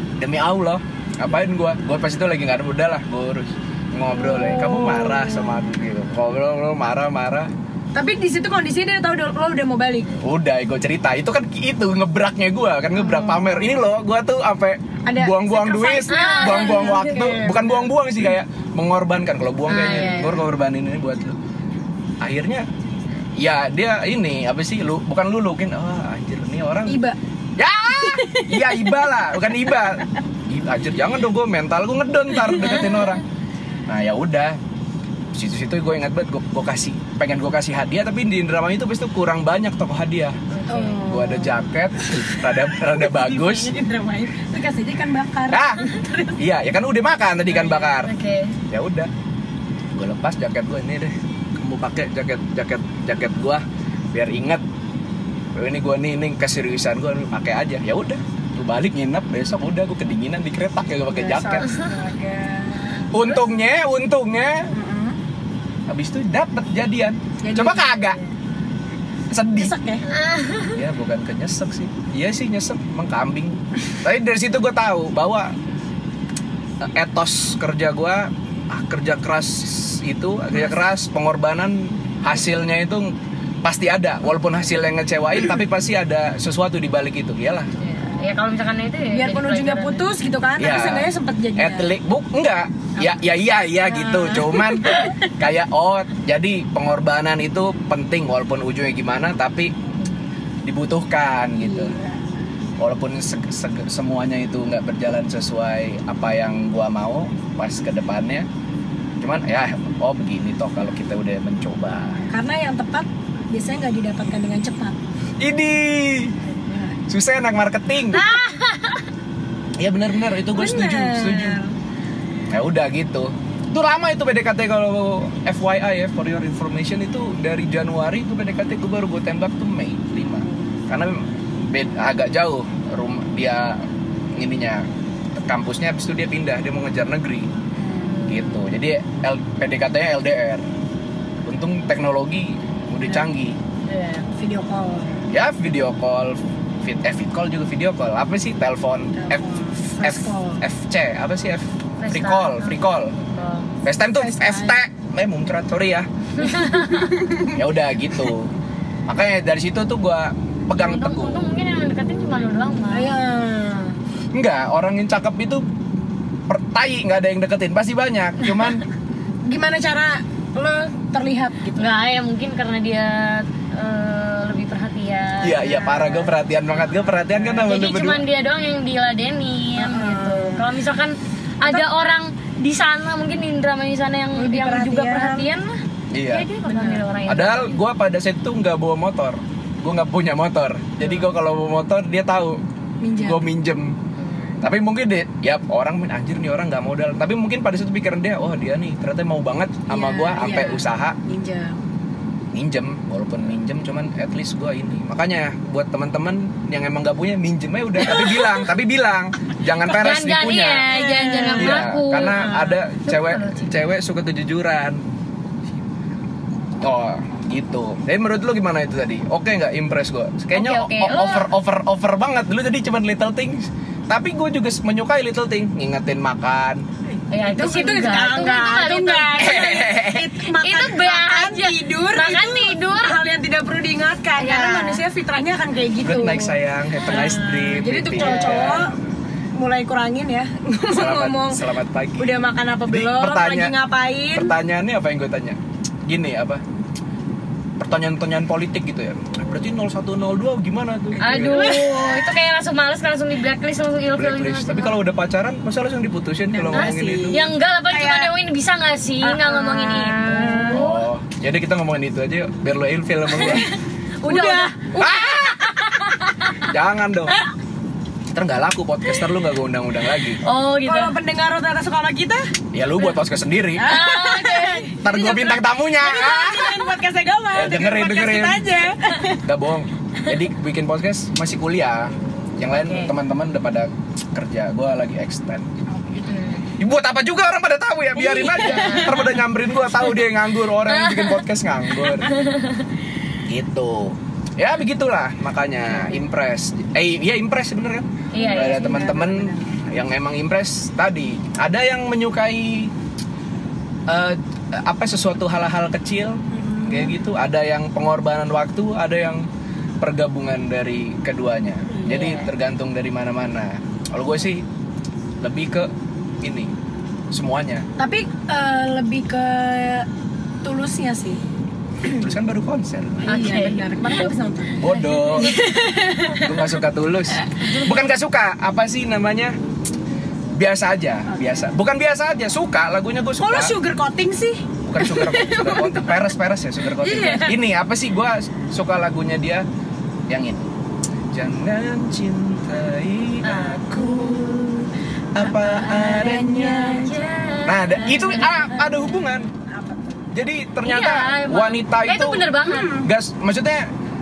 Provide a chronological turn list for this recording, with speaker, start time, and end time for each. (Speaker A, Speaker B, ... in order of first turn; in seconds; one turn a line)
Speaker A: 0.2-7.5
Speaker B: 4.1-5.7
Speaker B: 8.0-10.1
Speaker A: 10.2-21.4
Speaker B: 12.9-13.7
Speaker B: 15.1-17.9
Speaker C: 16.1-17.3
Speaker C: 19.7-20.4
Speaker B: 19.7-20.3
Speaker A: 22.2-22.7
Speaker A: 23.4-27.0
Speaker B: 26.9-27.2
Speaker A: 27.6-33.2
Speaker B: 27.9-29.0
Speaker A: 33.9-34.6
Speaker A: 35.3-40.4
Speaker C: 40.5-41.2
Speaker B: 40.7-41.6
Speaker A: 41.1-43.7
Speaker B: 42.9-46.4
Speaker A: 45.5-45.8
Speaker A: 46.4-48.1
Speaker C: 47.5-48.6
Speaker A: 48.7-49.1
Speaker A: 49.9-54.6
Speaker A: 55.5-61.7
Speaker B: 61.1-63.4
Speaker A: 63.1-64.7
Speaker B: 64.7-65.2
Speaker A: 65.9-68.2
Speaker B: 67.4-67.9
Speaker A: 69.3-69.8
Speaker B: 69.6-70.0
Speaker C: 70.1-70.8
Speaker A: 70.7-75.6
Speaker A: 76.8-87.7
Speaker C: 87.8-90.1
Speaker B: 89.1-91.9
Speaker A: 90.6-99.7
Speaker B: 93.8-95.3
Speaker A: 100.7-102.0
Speaker B: 101.6-102.2
Speaker A: 102.8-108.5
Speaker A: 109.2-112.3
Speaker B: 112.3-115.0
Speaker A: 115.4-116.4
Speaker B: 116.5-117.0
Speaker A: 117.1-118.3
Speaker C: 118.1-119.0
Speaker A: 119.8-121.6
Speaker B: 120.5-121.7
Speaker A: 122.5-137.5
Speaker B: 137.8-138.2
Speaker C: 138.1-138.6
Speaker A: 138.3-140.7
Speaker A: 141.4-143.6
Speaker C: 143.9-144.3
Speaker B: 144.3-145.3
Speaker A: 145.3-153.2
Speaker B: 149.2-150.6
Speaker C: 152.0-153.7
Speaker A: 153.8-156.1
Speaker B: 154.2-154.8
Speaker C: 156.4-157.2
Speaker B: 156.7-157.6
Speaker A: 157.5-158.5
Speaker A: 159.1-161.5
Speaker C: 160.8-163.2
Speaker B: 162.9-163.9
Speaker A: 164.3-165.7
Speaker A: 166.5-168.8
Speaker B: 169.5-171.9
Speaker C: 171.8-176.3
Speaker A: 175.4-178.2
Speaker C: 177.5-187.8
Speaker B: 179.8-180.7
Speaker B: 184.4-185.5
Speaker A: 186.1-186.5
Speaker B: 186.6-187.0
Speaker A: 187.3-192.6
Speaker B: 193.0-193.4
Speaker A: 193.2-194.0
Speaker C: 194.2-194.6
Speaker A: 194.6-201.2
Speaker B: 199.9-201.8
Speaker A: 202.5-210.9
Speaker C: 209.9-213.7
Speaker B: 210.9-212.8
Speaker A: 211.5-215.0
Speaker A: 216.8-226.8
Speaker C: 220.5-221.5
Speaker B: 227.2-238.9
Speaker C: 227.3-230.0
Speaker A: 229.4-230.3
Speaker C: 230.6-233.2
Speaker C: 234.4-235.0
Speaker A: 236.0-238.9
Speaker C: 238.2-238.8
Speaker B: 239.6-241.6
Speaker A: 240.9-243.7
Speaker B: 242.2-244.6
Speaker A: 244.3-246.6
Speaker A: 247.8-251.8
Speaker C: 251.2-255.0
Speaker B: 251.4-252.1
Speaker A: 254.2-257.5
Speaker B: 256.5-258.3
Speaker C: 256.7-261.0
Speaker B: 259.2-260.9
Speaker A: 260.7-263.7
Speaker B: 263.3-266.1
Speaker C: 264.2-264.8
Speaker A: 264.9-265.7
Speaker A: 266.7-267.4
Speaker A: 268.3-270.4
Speaker C: 270.4-271.1
Speaker B: 270.9-272.4
Speaker A: 272.7-273.9
Speaker B: 273.8-279.4
Speaker C: 273.8-275.0
Speaker A: 275.0-276.9
Speaker A: 277.5-285.7
Speaker C: 282.7-283.1
Speaker B: 285.9-286.4
Speaker C: 286.3-286.7
Speaker A: 286.8-292.3
Speaker B: 288.2-289.3
Speaker C: 288.6-289.3
Speaker C: 290.9-291.4
Speaker C: 292.2-292.9
Speaker A: 293.5-302.9
Speaker C: 298.3-299.1
Speaker B: 298.3-299.7
Speaker A: 304.1-309.5
Speaker B: 306.5-307.1
Speaker A: 310.0-314.6
Speaker C: 312.1-312.5
Speaker A: 315.4-315.9
Speaker A: 316.4-316.7
Speaker A: 317.3-317.9
Speaker B: 318.0-320.1
Speaker B: 320.6-321.4
Speaker A: 322.1-323.4
Speaker B: 323.3-326.7
Speaker C: 323.3-324.3
Speaker A: 324.8-325.6
Speaker C: 325.1-325.7
Speaker A: 326.3-329.6
Speaker B: 327.5-327.9
Speaker A: 330.5-333.8
Speaker B: 333.4-336.2
Speaker A: 334.9-339.7
Speaker B: 337.0-337.5
Speaker A: 340.3-340.7
Speaker A: 341.3-347.0
Speaker C: 343.4-343.9
Speaker B: 345.4-347.3
Speaker C: 346.8-348.7
Speaker A: 347.6-349.5
Speaker B: 347.9-348.9
Speaker B: 349.6-350.3
Speaker A: 350.3-353.9
Speaker C: 350.8-353.0
Speaker B: 352.6-353.1